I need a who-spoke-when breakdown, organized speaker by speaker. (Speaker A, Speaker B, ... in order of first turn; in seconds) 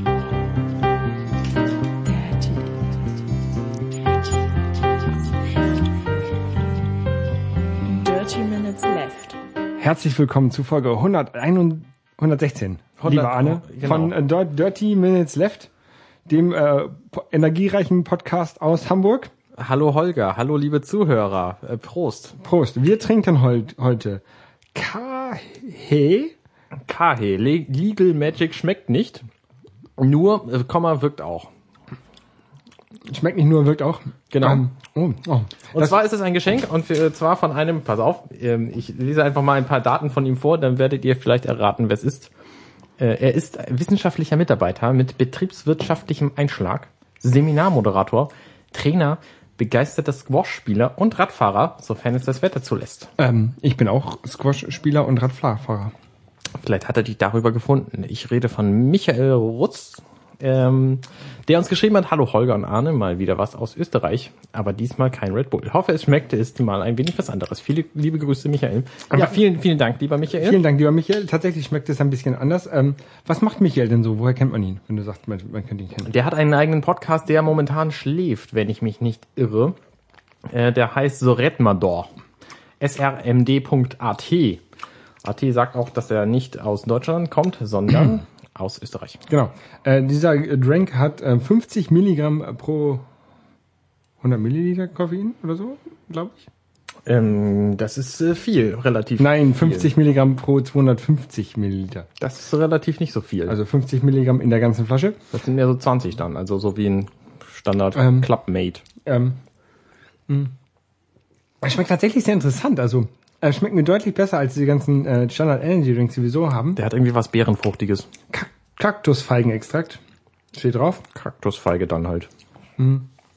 Speaker A: 2.0-2.8, 7.8-9.4
Speaker B: 9.8-15.7, 16.3-19.3, 22.4-24.2, 24.7-26.3, 33.1-36.0, 53.2-55.9, 69.1-69.4, 70.4-76.1, 89.3-93.1, 94.2-96.5, 99.2-102.1, 103.5-105.2, 108.0-108.3, 109.0-109.4, 110.3-110.5, 111.6-116.8, 118.3-120.0, 120.5-121.0, 122.8-123.1
Speaker C: 13.0-14.1, 19.6-22.4, 26.9-29.2, 30.0-31.5, 34.3-34.7, 35.7-42.3, 43.0-53.1, 56.6-70.6, 76.1-79.8, 80.5-82.1, 82.8-84.6, 85.2-89.2, 97.1-99.9, 102.2-103.6, 105.3-108.8, 116.8-118.1, 121.1-122.3